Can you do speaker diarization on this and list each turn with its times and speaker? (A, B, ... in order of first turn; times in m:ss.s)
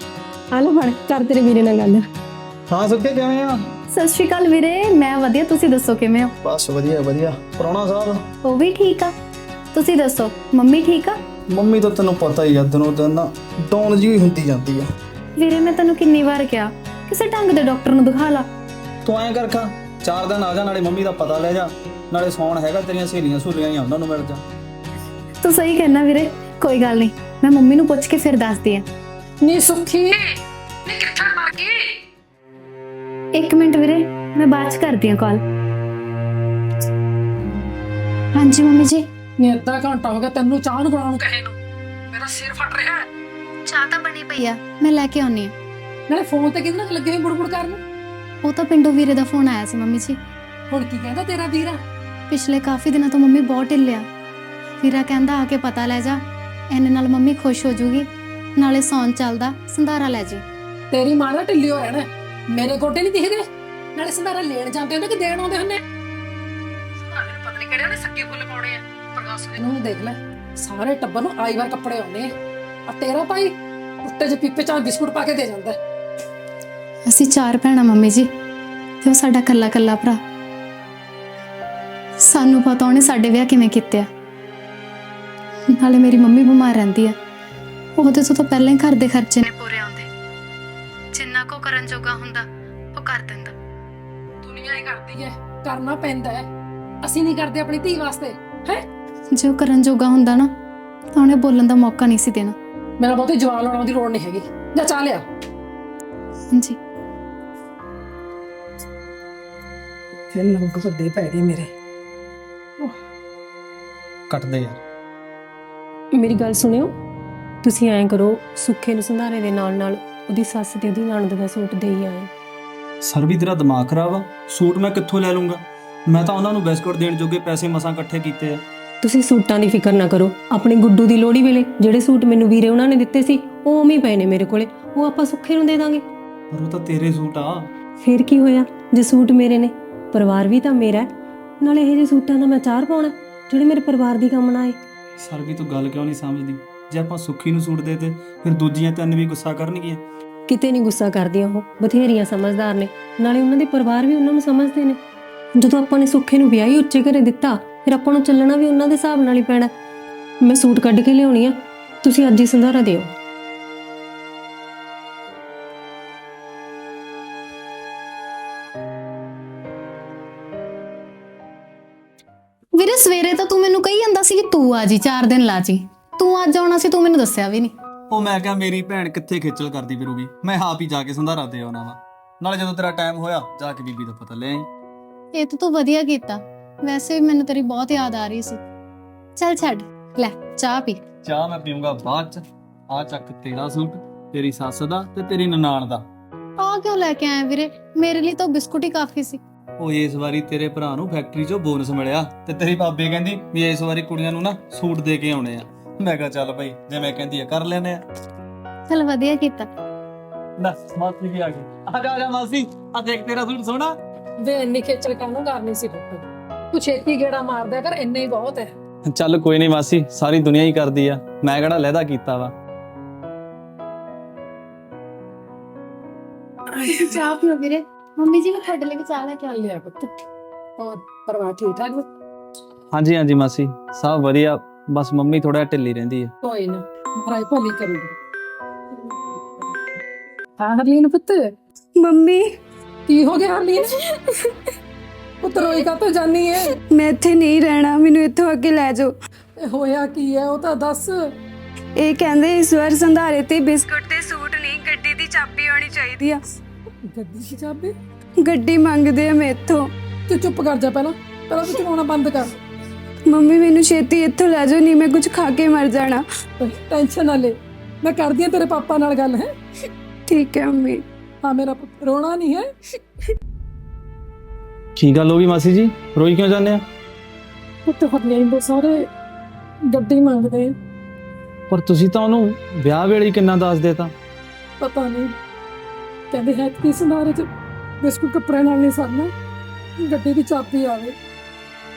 0:00.5-0:02.0 A
0:02.7-0:03.6 B
0:03.9-0:06.3 C
0:06.4-0:08.3 B
0:08.4-0:09.1 C
0:09.7-0:11.2 C
0:11.5-0:14.9 B
0:15.4-0:18.5 C
0:19.0-0:24.4 B
0:25.4-0:28.9 C
0:29.4-0:30.2 D
0:30.9-0:31.9 D
0:33.3-0:35.4 C
0:38.3-0:39.0 C
0:39.4-0:41.6 D
0:42.1-0:43.1 D
0:43.7-0:45.5 C
0:46.1-0:47.8 D
0:48.4-0:50.2 C
0:50.7-0:51.8 D
0:52.3-0:54.1 C
0:54.8-1:00.4 C
1:00.9-1:03.4 D
1:04.0-1:05.8 D
1:07.0-1:12.3 D
1:12.9-1:13.5 D
1:14.0-1:15.8 D
1:17.1-1:18.3 C
1:19.0-1:20.2 C
1:22.2-1:24.1 C
1:25.7-1:27.2 C
1:28.0-1:30.1 C
1:31.1-1:33.6 C
1:34.4-1:36.5 D
1:37.0-1:38.8 D
1:39.3-1:40.5 C
1:41.1-1:42.6 C
1:43.0-1:45.2 D
1:46.5-1:46.8 C
1:50.3-1:51.7 D
1:54.3-1:54.8 B
1:56.1-1:56.9 A
1:57.6-2:02.3 A
2:03.0-2:08.6 B
2:09.0-2:16.0 A
2:16.5-2:17.7 B
2:18.0-2:21.1 A
2:21.6-2:24.8 A
2:25.2-2:30.0 B
2:30.5-2:35.0 A
2:35.6-2:39.7 A
2:40.4-2:43.1 A
2:52.8-2:57.7 C
2:58.1-3:04.7 B
3:05.3-3:08.6 C
3:09.4-3:11.0 C
3:11.2-3:16.1 B
3:16.6-3:19.4 C
3:19.8-3:28.0 B
3:28.9-3:29.7 C
3:30.6-3:34.0 B
3:34.4-3:38.7 D
3:39.1-3:42.5 B
3:46.8-3:47.1 D
3:46.8-3:49.6 C
3:49.5-3:50.1 D
3:50.8-3:52.1 D
3:52.9-3:56.3 B
3:56.4-3:58.2 D
4:00.6-4:01.5 D
4:02.0-4:02.4 E
4:03.1-4:04.0 D
4:05.4-4:06.8 D
4:06.9-4:09.1 E
4:09.6-4:11.1 D
4:12.0-4:16.4 E
4:17.1-4:18.0 D
4:18.4-4:19.9 E
4:20.3-4:22.6 D
4:23.3-4:26.2 E
4:26.6-4:29.5 D
4:30.3-4:31.0 E
4:31.4-4:32.7 D
4:35.0-4:36.8 B
4:37.9-4:39.1 D
4:39.9-4:40.7 D
4:41.7-4:44.1 B
4:44.8-4:45.3 D
4:46.3-4:47.5 D
4:48.0-4:49.3 D
4:50.0-4:51.2 D